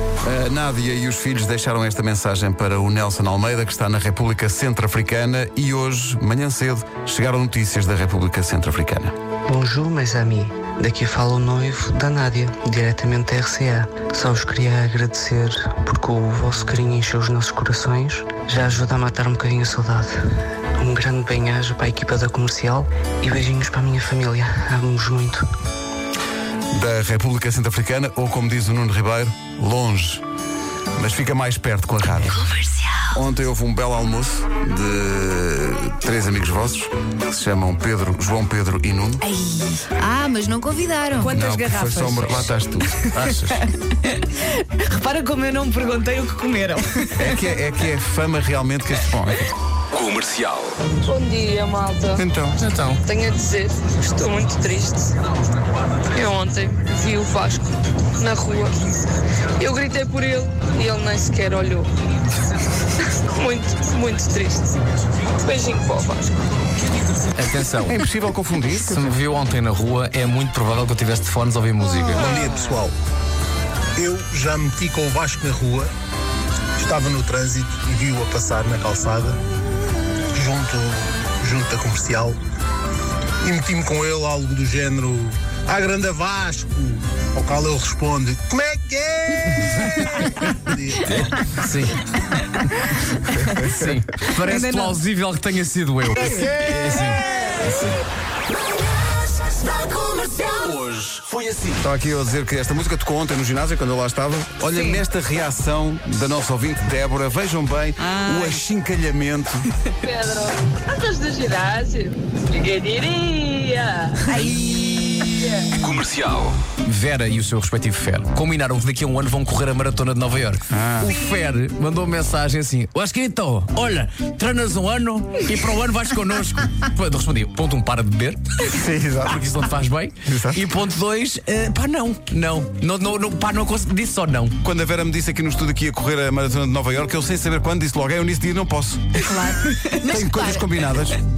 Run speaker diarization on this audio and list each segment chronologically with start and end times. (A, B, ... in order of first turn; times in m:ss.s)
0:00.2-0:09.1 A
0:09.5-0:20.1 B
0:20.8-0:25.4 B
0:26.7-0:30.2 A
0:30.9-0:32.4 A
0:33.1-0:39.2 A
0:39.3-0:39.8 C
0:40.0-0:41.3 D
0:41.2-0:47.4 C
0:41.3-0:43.6 A
0:47.2-0:49.5 A
0:49.9-0:50.7 E
0:51.0-0:52.2 F
0:52.2-0:52.6 A
0:52.6-0:53.0 G
0:53.0-0:55.1 F
0:56.1-0:59.0 F
0:59.6-1:01.9 F
1:03.0-1:04.8 F
1:05.4-1:06.4 F
1:07.4-1:08.0 G
1:07.8-1:09.2 A
1:08.8-1:12.3 G
1:12.2-1:12.7 H
1:12.2-1:12.8 A
1:14.0-1:15.9 H
1:16.8-1:19.4 H
1:20.3-1:22.4 H
1:23.4-1:31.3 H
1:31.5-1:32.0 G
1:33.5-1:37.9 G
1:34.4-1:35.0 C
1:36.2-1:36.6 C
1:36.7-1:37.0 A
1:40.8-1:41.7 E
1:41.8-1:49.7 A
1:44.7-1:45.0 C
1:50.0-1:54.1 F
1:55.1-1:55.5 F
1:55.8-1:56.5 E
1:56.8-2:14.6 G
2:00.7-2:01.1 A
2:08.8-2:09.4 A
2:10.2-2:10.6 A
2:14.6-2:19.2 A
2:19.2-2:20.6 D
2:20.0-2:21.2 A